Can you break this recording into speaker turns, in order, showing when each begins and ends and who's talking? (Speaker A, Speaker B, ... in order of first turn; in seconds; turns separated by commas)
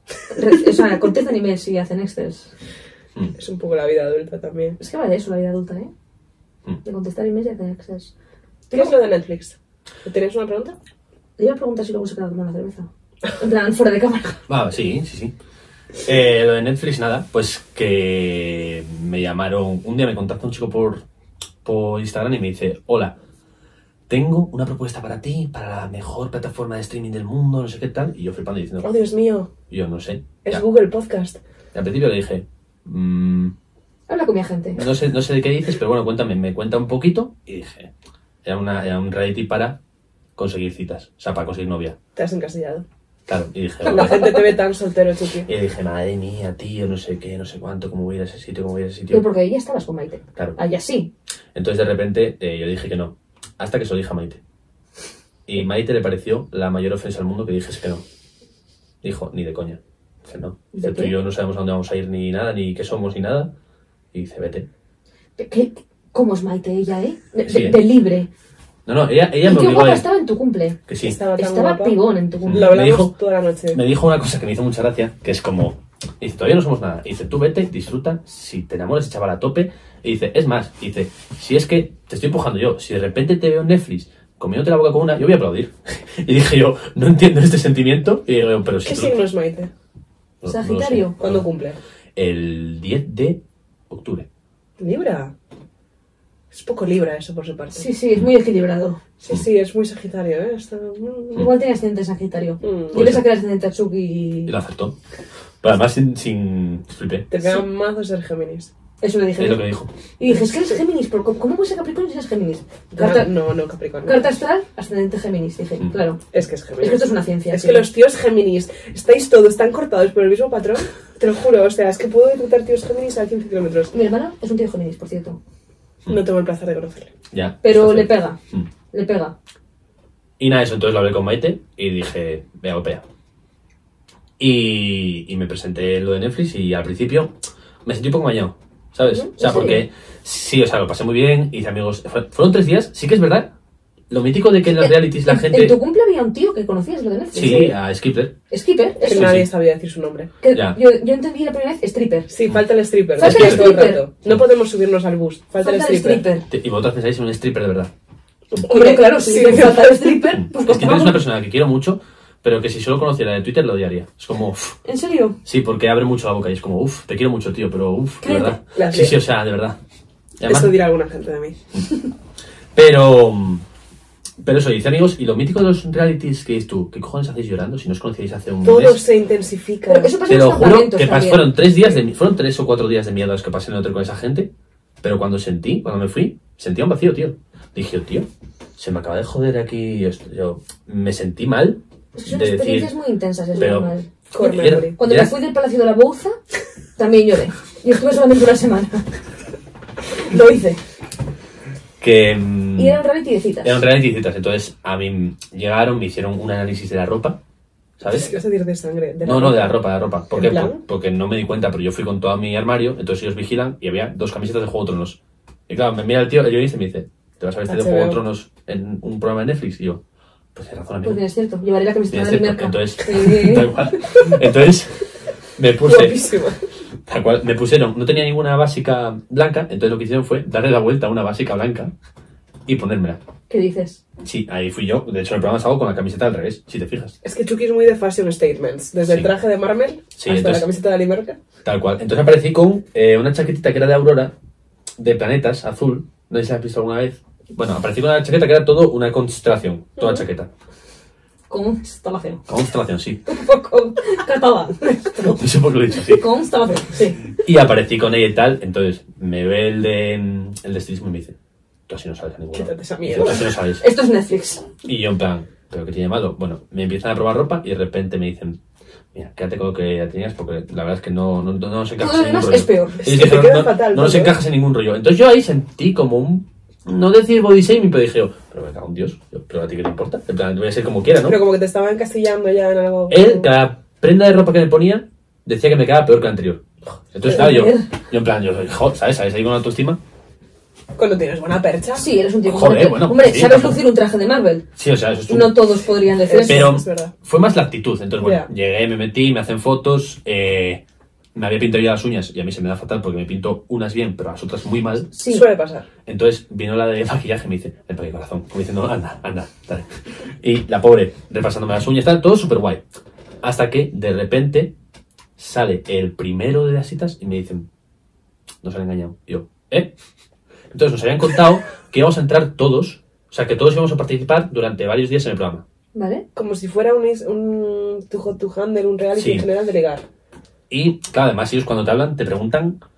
Speaker A: 0.3-2.5, Speaker B: 3.4-4.8, Speaker A: 4.8-5.9, Speaker A: 6.8-8.1, Speaker B: 8.7-10.8, Speaker A: 11.4-14.4, Speaker C: 14.5-15.3, Speaker C: 16.0-21.0, Speaker C: 21.6-23.1, Speaker C: 24.1-28.9, Speaker B: 28.8-29.5, Speaker C: 29.7-30.6, Speaker B: 30.4-31.4, Speaker C: 31.7-33.5, Speaker A: 34.1-34.8, Speaker C: 34.8-37.9, Speaker C: 38.4-39.8, Speaker C: 40.4-42.0, Speaker B: 42.1-42.8, Speaker C: 43.3-44.3, Speaker A: 43.8-44.5, Speaker B: 43.9-45.5, Speaker C: 45.5-49.3, Speaker A: 49.1-51.1, Speaker C: 51.5-54.4, Speaker C: 55.5-58.0, Speaker C: 59.0-63.5, Speaker A: 60.7-61.1, Speaker C: 64.1-64.7, Speaker A: 65.4-68.3, Speaker C: 67.5-67.8, Speaker C: 68.8-70.1, Speaker A: 69.4-70.8, Speaker C: 70.9-71.2, Speaker B: 71.0-73.8, Speaker A: 71.3-72.8, Speaker C: 72.4-73.2, Speaker C: 73.7-89.1, Speaker B: 88.8-89.7, Speaker C: 90.4-91.4, Speaker A: 90.5-91.2, Speaker B: 91.2-91.8, Speaker C: 92.2-94.2, Speaker B: 94.8-95.3, Speaker B: 96.5-97.9, Speaker A: 97.7-99.0, Speaker B: 99.2-101.5, Speaker A: 101.3-104.5, Speaker B: 102.6-103.0, Speaker C: 102.9-103.3, Speaker C: 104.5-104.9, Speaker C: 105.6-107.3, Speaker B: 107.3-108.7, Speaker A: 109.0-109.7, Speaker C: 109.4-109.9, Speaker A: 110.2-113.3, Speaker B: 110.3-110.8, Speaker B: 112.9-114.3, Speaker A: 114.0-116.2, Speaker B: 116.3-123.9, Speaker A: 116.8-117.9, Speaker A: 123.9-125.4, Speaker B: 126.1-127.1, Speaker C: 127.3-128.7, Speaker A: 127.6-128.4, Speaker A: 128.9-129.3, Speaker C: 130.4-133.0, Speaker C: 134.4-137.3, Speaker C: 137.8-143.5, Speaker A: 139.3-139.8, Speaker C: 144.1-145.8, Speaker A: 144.8-147.7, Speaker C: 147.3-148.3, Speaker A: 148.5-149.3, Speaker B: 149.0-150.3, Speaker C: 149.1-149.5, Speaker A: 150.4-152.3, Speaker C: 150.5-150.8, Speaker B: 152.3-156.2, Speaker A: 153.2-154.0, Speaker C: 153.2-153.7, Speaker A: 155.6-156.5, Speaker C: 156.5-157.9, Speaker B: 158.6-160.3, Speaker A: 158.6-161.2, Speaker C: 159.5-159.7, Speaker C: 160.3-164.8, Speaker A: 164.8-165.4, Speaker C: 165.4-169.8, Speaker A: 168.2-168.6, Speaker B: 168.7-169.2, Speaker C: 170.4-170.7, Speaker B: 170.4-171.6, Speaker C: 172.7-173.6, Speaker C: 174.4-179.0, Speaker B: 178.6-180.2, Speaker A: 179.9-181.6, Speaker C: 180.3-184.5, Speaker C: 185.0-188.3, Speaker C: 188.8-192.9, Speaker A: 192.1-194.1, Speaker C: 193.6-195.3, Speaker B: 194.3-195.0, Speaker A: 194.8-196.4, Speaker A: 197.0-199.1, Speaker A: 200.3-200.8, Speaker B: 200.3-200.7, Speaker C: 202.0-203.0, Speaker A: 202.8-203.8, Speaker C: 203.6-207.4, Speaker C: 208.0-208.3, Speaker B: 208.1-209.8, Speaker C: 209.2-215.2, Speaker B: 210.3-210.8, Speaker C: 215.7-220.0, Speaker B: 217.7-218.2, Speaker C: 220.5-221.2, Speaker A: 221.0-223.7, Speaker C: 222.1-225.0, Speaker C: 225.6-226.2, Speaker B: 225.8-226.7, Speaker C: 227.1-231.9, Speaker C: 232.7-233.2, Speaker A: 233.5-234.0, Speaker C: 234.2-237.2, Speaker B: 237.2-241.4, Speaker C: 240.2-240.7, Speaker C: 241.6-244.3, Speaker C: 245.0-250.5, Speaker B: 250.0-250.2, Speaker A: 251.5-252.4, Speaker C: 252.5-253.2, Speaker A: 253.3-255.4, Speaker C: 255.3-256.2, Speaker A: 255.9-257.2, Speaker C: 257.4-261.3, Speaker C: 261.9-263.8, Speaker B: 262.5-263.5, Speaker A: 263.8-264.7, Speaker C: 264.8-268.6, Speaker C: 269.1-281.4, Speaker A: 272.0-273.0, Speaker B: 273.0-274.4, Speaker B: 281.2-283.5, Speaker C: 283.1-286.6, Speaker B: 286.9-287.4, Speaker C: 287.1-290.0, Speaker A: 287.3-287.9, Speaker B: 290.9-292.1, Speaker A: 291.9-294.6, Speaker C: 292.4-293.8, Speaker C: 294.8-295.7, Speaker A: 295.3-296.7, Speaker B: 296.2-297.1, Speaker C: 296.4-300.8, Speaker B: 298.2-298.5, Speaker C: 301.3-305.1, Speaker A: 305.1-305.5, Speaker B: 305.3-305.9, Speaker C: 306.1-309.9, Speaker C: 310.4-312.8, Speaker C: 313.4-314.7, Speaker C: 315.4-317.7, Speaker C: 318.6-319.9, Speaker C: 320.7-325.6, Speaker A: 325.9-326.2, Speaker B: 326.3-330.1, Speaker C: 329.1-329.4, Speaker C: 330.7-332.8